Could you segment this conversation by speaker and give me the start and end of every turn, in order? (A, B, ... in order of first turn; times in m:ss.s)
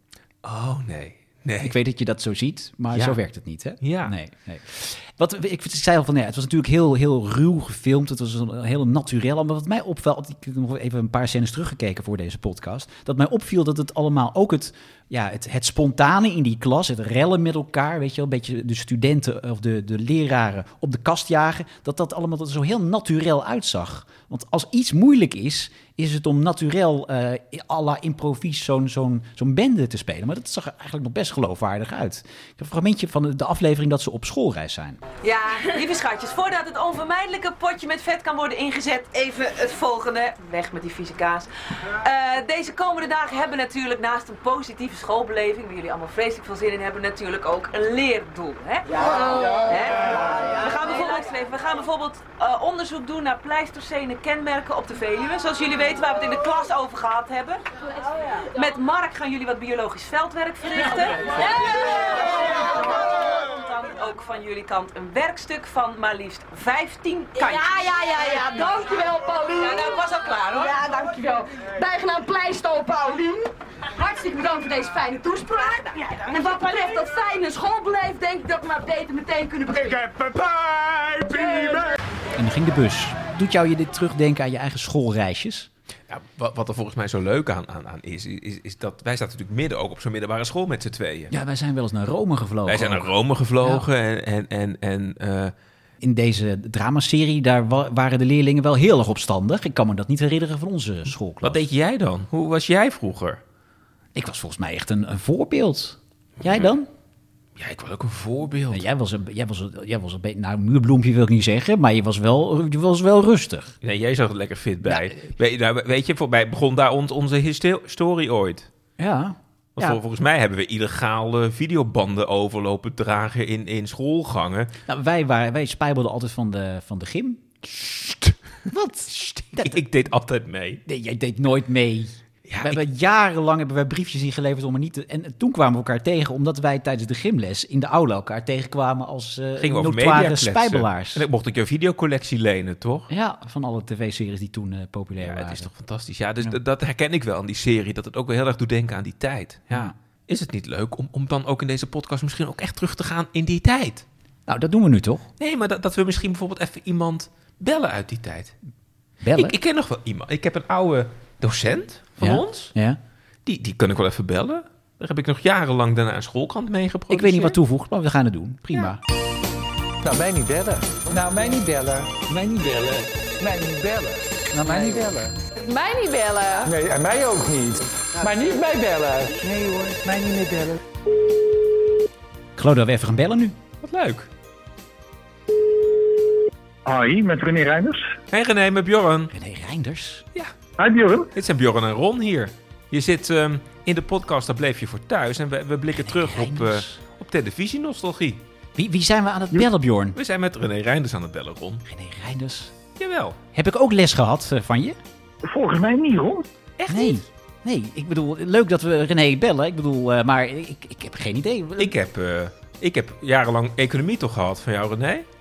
0:00.4-0:01.8 A
0:01.6-0:35.0 B
0:02.9-0:03.2 A
0:03.8-0:04.1 A
0:35.2-0:57.6 C
0:58.5-1:08.4 C
1:07.9-1:09.6 D
1:09.5-1:10.8 C
1:10.7-1:13.3 D
1:14.0-1:20.0 D
1:20.3-1:21.2 E
1:22.4-1:25.7 B
1:26.1-1:31.3 A
1:31.3-1:33.8 B
1:32.7-1:35.5 A
1:36.0-1:41.6 B
1:41.4-1:43.4 A
1:44.2-1:46.9 B
1:47.6-1:48.8 A
1:48.7-1:53.8 B
1:53.8-1:58.7 A
1:54.8-1:55.3 B
1:59.0-2:00.0 B
1:59.8-2:04.7 A
2:04.9-2:07.4 B
2:07.7-2:08.3 A
2:08.7-2:09.8 B
2:09.6-2:10.8 A
2:10.9-2:21.2 B
2:12.5-2:12.8 A
2:19.6-2:23.1 A
2:23.1-2:25.7 B
2:25.2-2:34.0 A
2:34.5-2:35.3 B
2:35.4-2:38.6 A
2:39.2-2:39.6 B
2:39.4-2:42.7 A
2:42.2-2:43.0 B
2:43.5-2:47.6 A
2:47.1-2:49.0 B
2:50.0-2:55.3 E
2:55.7-2:56.7 C
2:56.6-3:00.8 E
3:02.6-3:03.6 B
3:03.8-3:04.3 A
3:06.8-3:08.1 F
3:08.3-3:09.3 A
3:09.3-3:10.2 B
3:10.8-3:11.3 F
3:11.3-3:18.4 A
3:15.9-3:17.0 B
3:18.8-3:20.2 B
3:20.2-3:21.8 A
3:21.9-3:22.7 B
3:23.0-3:23.4 A
3:23.5-3:25.0 B
3:25.4-3:26.5 F
3:26.8-3:27.2 A
3:26.9-3:32.0 B
3:31.8-3:35.3 A